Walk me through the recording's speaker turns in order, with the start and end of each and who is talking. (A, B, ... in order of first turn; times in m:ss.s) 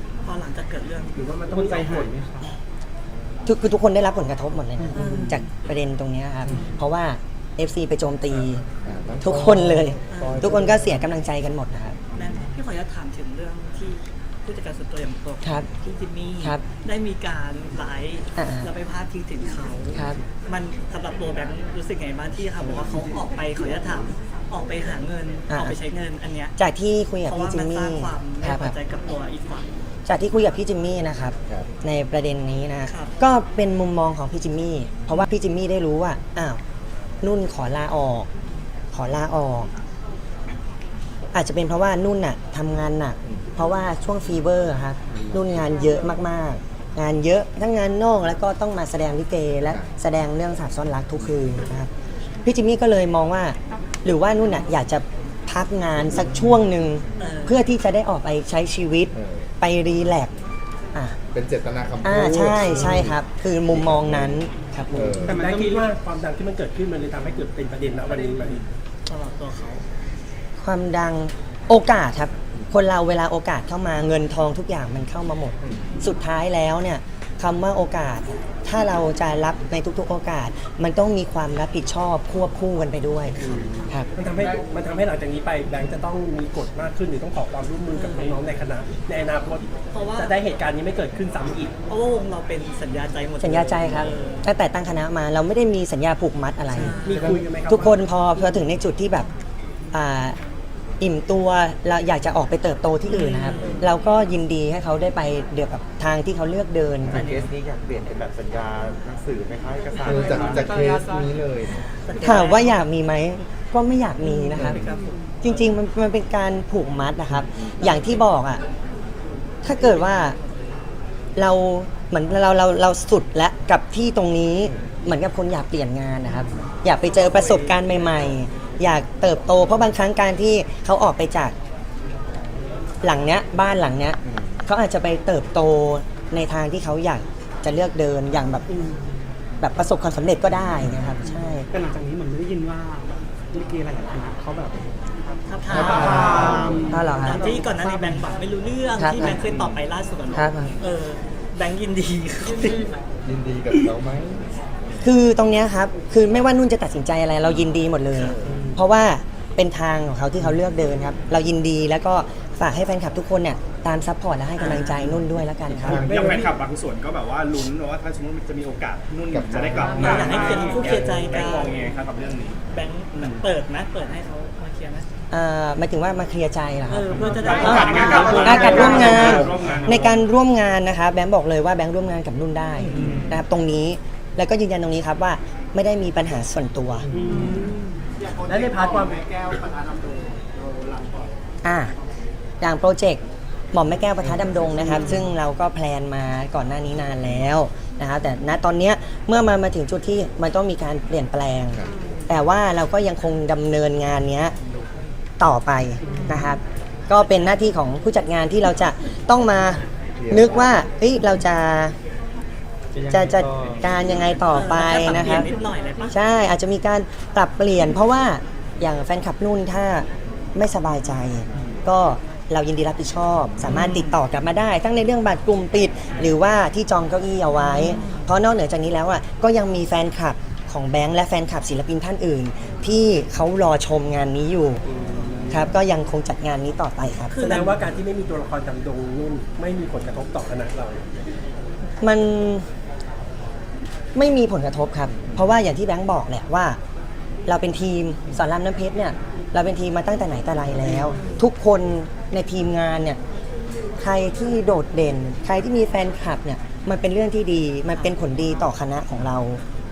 0:00.2-0:01.8 A
0:01.2-0:02.2 B
0:01.5-0:02.5 C
0:03.5-0:08.6 D
0:05.0-0:05.4 A
0:06.5-0:06.8 A
0:08.8-0:11.1 E
0:09.2-0:12.0 D
0:10.1-0:10.5 A
0:12.1-0:26.6 A
0:15.4-0:15.7 D
0:18.4-0:18.7 D
0:19.9-0:20.2 D
0:25.5-0:25.8 D
0:26.6-0:28.8 D
0:27.3-0:29.7 A
0:30.1-0:36.6 D
0:32.9-0:33.1 A
0:37.2-0:38.3 D
0:38.9-0:39.7 D
0:41.3-0:51.9 D
0:45.1-0:45.6 E
0:52.4-1:00.3 D
0:57.2-0:57.6 A
0:59.1-0:59.5 E
1:01.3-1:05.4 E
1:02.0-1:05.2 D
1:05.2-1:08.6 B
1:05.2-1:05.9 C
1:08.1-1:09.8 A
1:10.6-1:23.4 D
1:15.6-1:15.9 E
1:23.4-1:31.7 B
1:27.9-1:28.4 A
1:29.9-1:30.3 A
1:31.9-1:34.4 A
1:33.4-1:39.3 D
1:36.7-1:37.4 A
1:36.9-1:38.0 B
1:37.1-1:37.4 E
1:39.9-1:40.4 D
1:41.0-1:47.3 D
1:43.1-1:43.8 A
1:43.6-1:43.9 E
1:47.1-1:50.8 F
1:47.1-1:47.5 A
1:50.0-1:51.8 E
1:50.7-1:51.2 C
1:52.1-1:52.8 A
1:52.2-1:54.8 D
1:54.3-1:55.0 A
1:54.6-1:55.0 E
1:55.4-1:58.6 D
1:57.6-1:57.9 E
1:59.6-2:00.4 D
2:01.4-2:11.6 D
2:06.2-2:08.2 A
2:13.0-2:18.7 D
2:14.2-2:14.6 E
2:18.7-2:19.1 C
2:19.6-2:21.7 D
2:21.7-2:24.9 C
2:25.5-2:32.9 A
2:25.7-2:27.0 E
2:25.8-2:28.2 C
2:25.8-2:26.8 B
2:26.9-2:27.4 D
2:29.0-2:29.4 D
2:29.5-2:29.8 E
2:30.3-2:30.7 D
2:33.2-2:35.1 E
2:35.0-2:46.0 D
2:38.1-2:38.8 E
2:38.5-2:38.8 C
2:44.6-2:45.0 A
2:45.8-2:46.5 E
2:45.8-2:52.6 G
2:45.9-2:46.4 B
2:49.3-2:51.5 E
2:50.0-2:51.8 A
2:52.7-2:55.1 A
2:53.2-2:53.4 G
2:55.3-3:07.1 D
2:56.9-2:59.4 A
2:57.3-3:00.1 G
2:57.4-3:00.0 C
2:58.2-2:59.0 B
2:59.2-2:59.5 E
3:02.9-3:03.2 G
3:07.1-3:08.0 C
3:07.2-3:07.7 B
3:08.4-3:09.3 B
3:11.6-3:12.0 D
3:12.6-3:13.2 D
3:13.7-3:24.6 D
3:14.3-3:14.7 E
3:21.7-3:22.2 E
3:25.4-3:32.0 D
3:26.0-3:26.6 C
3:30.2-3:30.8 E
3:33.0-3:33.8 C
3:33.1-3:35.5 D
3:34.4-3:36.2 A
3:36.1-3:54.8 D
3:43.6-3:44.2 A
3:47.6-3:48.2 A
3:54.9-3:55.6 B
3:55.5-3:57.4 D
3:57.3-3:57.7 A
3:57.4-4:01.0 B
4:02.0-4:02.7 D
4:04.2-4:06.8 D
4:07.5-4:13.2 D
4:14.0-4:19.6 D